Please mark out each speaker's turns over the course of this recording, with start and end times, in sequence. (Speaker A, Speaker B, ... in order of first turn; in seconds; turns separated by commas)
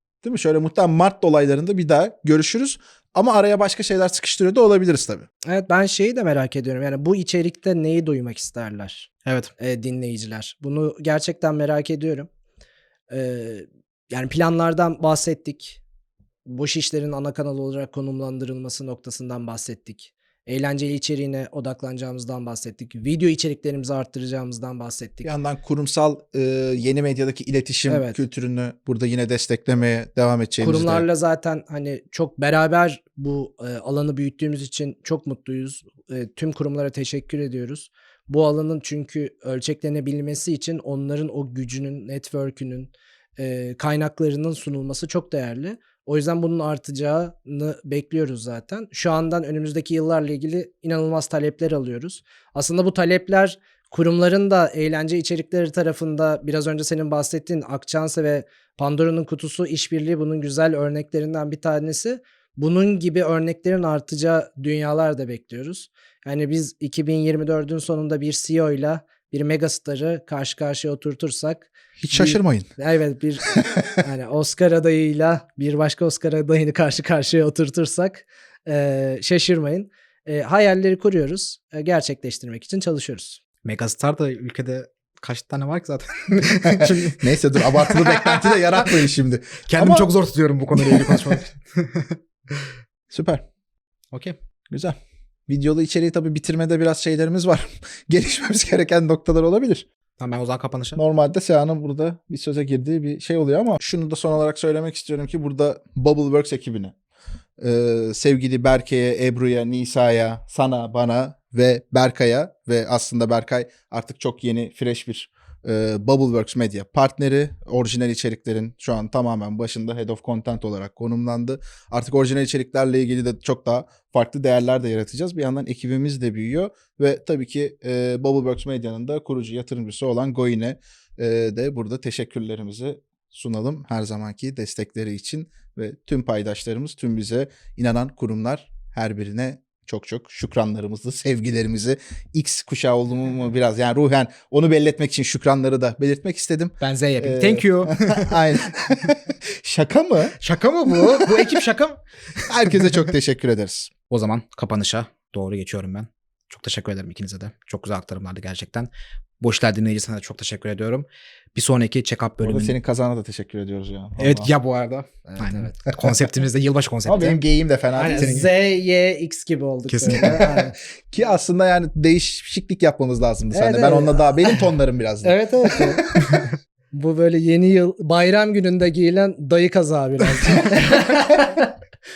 Speaker A: 0.2-5.3, Speaker B: 5.4-12.3, Speaker C: 9.2-9.5, Speaker B: 13.1-15.8, Speaker B: 16.4-25.3, Speaker A: 25.2-31.1, Speaker B: 27.9-28.2, Speaker B: 30.6-83.4, Speaker A: 72.0-72.7, Speaker C: 83.6-88.9, Speaker A: 86.6-90.1, Speaker C: 89.7-92.7, Speaker A: 90.8-91.4, Speaker A: 93.1-93.4, Speaker C: 94.1-94.4, Speaker A: 94.7-95.0, Speaker A: 95.5-99.9, Speaker C: 100.2-101.0, Speaker A: 101.0-106.9, Speaker A: 107.6-150.3, Speaker C: 146.8-148.4, Speaker C: 150.4-152.0, Speaker A: 150.9-151.6, Speaker A: 152.4-153.9, Speaker C: 154.1-158.9, Speaker C: 159.4-162.8, Speaker A: 162.4-164.5, Speaker C: 164.2-167.4, Speaker B: 165.3-165.7, Speaker A: 167.1-168.4, Speaker B: 168.0-170.7, Speaker C: 168.1-168.5, Speaker C: 169.9-170.5, Speaker A: 170.1-176.4, Speaker B: 173.5-174.6, Speaker B: 175.2-176.1, Speaker B: 176.9-181.7